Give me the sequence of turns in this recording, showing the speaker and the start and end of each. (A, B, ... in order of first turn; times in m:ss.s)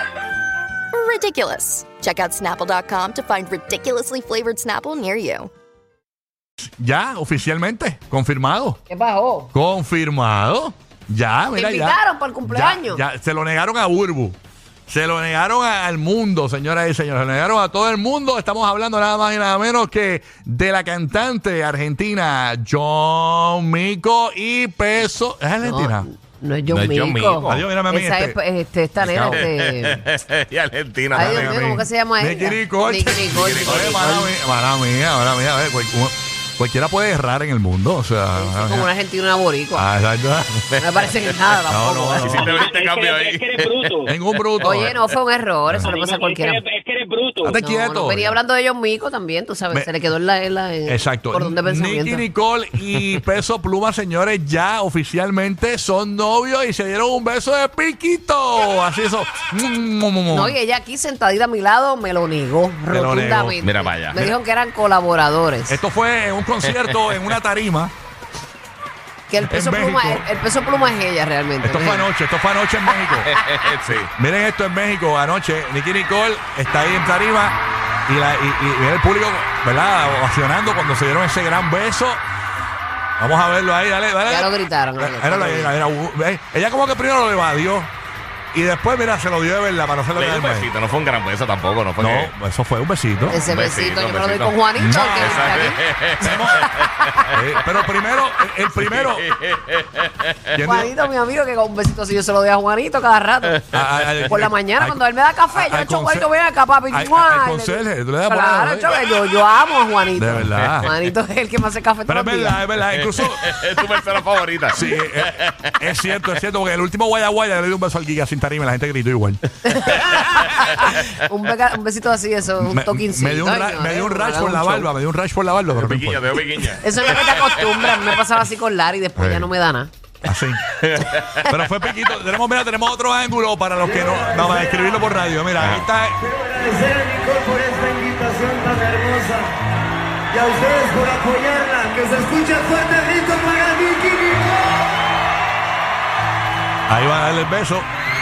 0:00.9-0:05.5 A
0:06.6-0:08.8 B
0:08.9-0:09.5 C
0:09.5-0:14.4 B
0:11.5-0:13.0 C
0:14.9-0:26.1 B
0:25.6-0:30.0 C
0:26.7-0:27.6 D
0:27.4-0:28.4 B
0:29.0-0:31.5 D
0:31.1-0:34.3 C
0:31.2-0:38.9 B
0:33.3-0:34.0 D
0:38.4-0:39.9 C
0:39.8-0:40.7 B
0:40.8-0:42.6 C
0:41.7-0:42.6 B
0:42.2-0:44.1 D
0:42.6-0:44.1 E
0:44.1-0:45.0 B
0:44.6-0:46.6 C
0:45.9-0:47.6 E
0:47.4-0:48.4 B
0:47.6-0:52.3 C
0:50.9-1:00.6 B
1:00.3-1:05.8 C
1:02.9-1:03.6 B
1:03.6-1:04.3 D
1:05.7-1:07.9 B
1:06.8-1:07.2 D
1:09.3-1:12.1 C
1:09.5-1:10.3 B
1:11.6-1:13.3 B
1:13.0-1:13.5 C
1:13.3-1:14.1 D
1:13.9-1:22.2 B
1:23.2-1:27.9 B
1:24.3-1:25.8 C
1:28.5-1:30.7 B
1:30.1-1:32.3 D
1:32.0-1:33.4 B
1:33.3-1:37.4 C
1:33.4-1:36.9 D
1:34.8-1:36.7 B
1:37.3-1:39.3 B
1:38.7-1:40.5 D
1:40.5-1:40.9 B
1:40.6-1:52.6 C
1:43.7-1:46.3 B
1:46.9-1:49.0 B
1:50.2-1:50.9 B
1:52.1-1:53.5 B
1:52.9-1:56.0 D
1:54.7-1:59.4 B
1:59.6-2:04.9 C
2:00.6-2:00.9 D
2:02.6-2:06.3 B
2:05.7-2:08.0 D
2:06.8-2:09.9 C
2:09.2-2:09.5 B
2:10.2-2:10.6 B
2:10.8-2:11.5 D
2:11.4-2:16.2 B
2:13.9-2:14.8 F
2:15.6-2:15.9 D
2:16.3-2:19.6 F
2:20.3-2:24.7 F
2:26.9-2:27.9 B